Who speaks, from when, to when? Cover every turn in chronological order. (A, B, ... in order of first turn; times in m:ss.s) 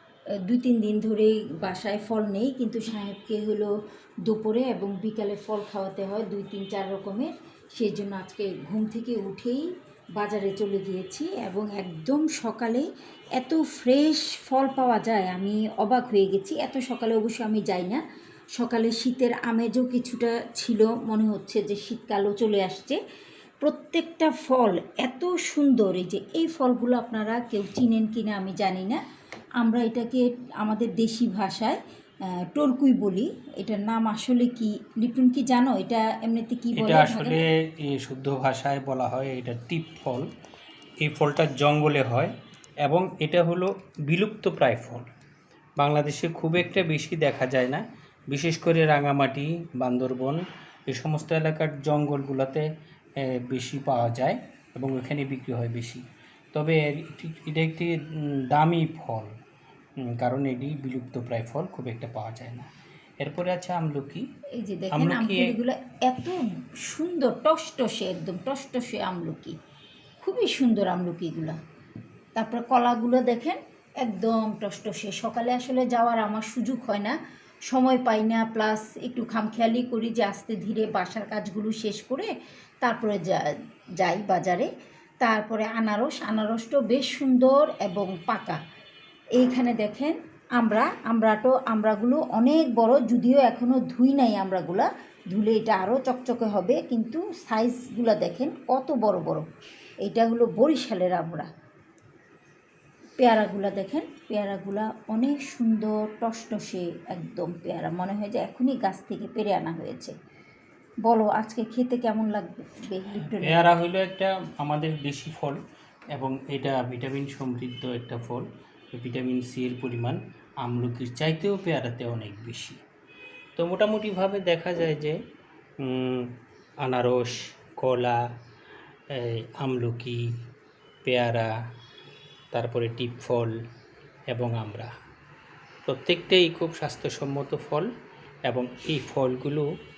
0:00.5-0:03.7 A
0:04.3-0:18.0 A
0:18.6-0:23.0 A
0:23.6-0:29.0 A
0:29.6-0:31.8 A
0:32.5-0:37.4 A
0:36.8-0:40.3 B
0:41.0-0:42.3 B
0:42.8-0:45.1 B
0:45.8-0:52.7 B
0:53.2-0:56.0 B
0:56.5-0:59.3 B
1:00.0-1:02.7 B
1:03.2-1:04.2 B
1:04.6-1:09.6 A
1:04.9-1:05.5 B
1:10.2-1:11.6 A
1:12.4-1:17.2 A
1:17.7-1:22.3 A
1:22.8-1:24.7 A
1:25.2-1:28.6 A
1:29.4-1:39.4 A
1:40.0-1:41.5 A
1:43.2-1:50.1 A
1:51.0-1:53.7 A
1:53.2-1:55.6 B
1:56.1-2:02.8 B
2:03.6-2:05.2 B
2:05.8-2:06.3 B
2:06.8-2:08.2 B
2:09.1-2:10.2 B
2:11.0-2:11.5 B
2:12.5-2:13.5 B
2:14.3-2:14.9 B
2:15.8-2:17.9 B
2:18.5-2:19.7 B